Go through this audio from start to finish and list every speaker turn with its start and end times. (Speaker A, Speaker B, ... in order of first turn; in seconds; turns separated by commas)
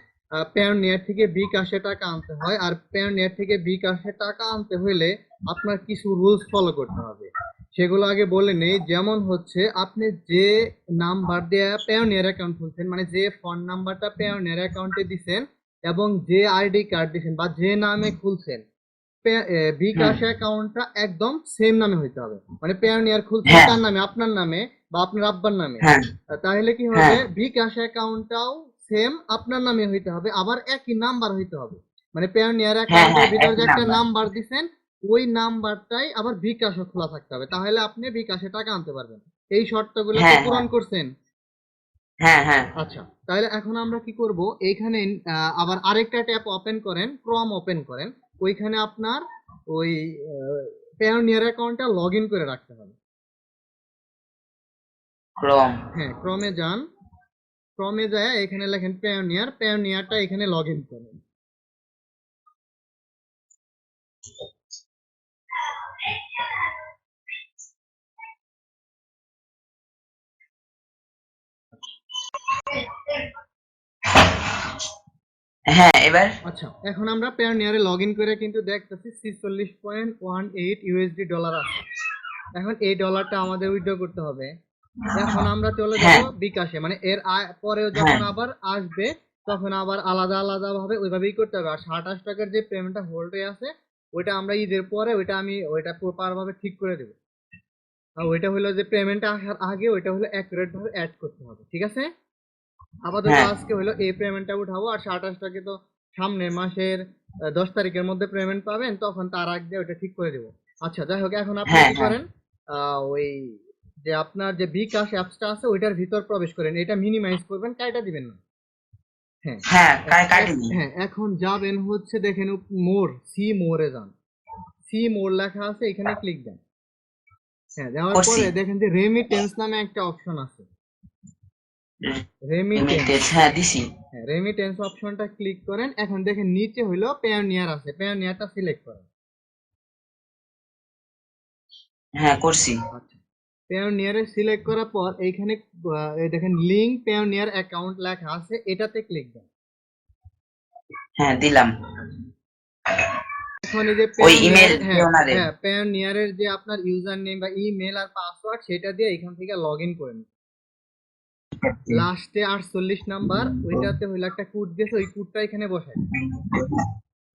Speaker A: 0.4-18.6, Speaker A: 19.2-41.1, Speaker B: 23.4-23.7, Speaker B: 25.8-26.1, Speaker B: 26.9-27.2, Speaker B: 32.9-34.0, Speaker B: 40.1-40.6, Speaker B: 42.2-42.7, Speaker A: 42.8-53.0, Speaker B: 55.4-55.8, Speaker A: 55.9-56.9, Speaker A: 57.8-61.2, Speaker B: 65.7-66.7, Speaker B: 72.6-73.3, Speaker B: 74.1-74.6, Speaker B: 75.7-76.4, Speaker A: 76.4-81.8, Speaker A: 82.5-84.5, Speaker A: 85.1-97.2, Speaker B: 86.0-86.3, Speaker B: 88.0-88.2, Speaker A: 98.2-102.1, Speaker A: 103.1-107.0, Speaker B: 103.2-103.5, Speaker A: 107.5-118.4, Speaker B: 111.7-112.2, Speaker A: 119.4-124.1, Speaker B: 119.7-120.7, Speaker A: 124.8-126.6, Speaker A: 127.8-130.7, Speaker B: 128.1-128.5, Speaker B: 132.0-133.9, Speaker A: 132.5-133.1, Speaker A: 134.1-139.1, Speaker B: 142.2-142.8, Speaker A: 142.9-149.5, Speaker B: 151.2-151.7, Speaker A: 153.6-160.2, Speaker B: 154.2-155.4, Speaker B: 161.6-162.0, Speaker A: 161.9-166.0, Speaker B: 163.6-163.9, Speaker B: 166.1-166.9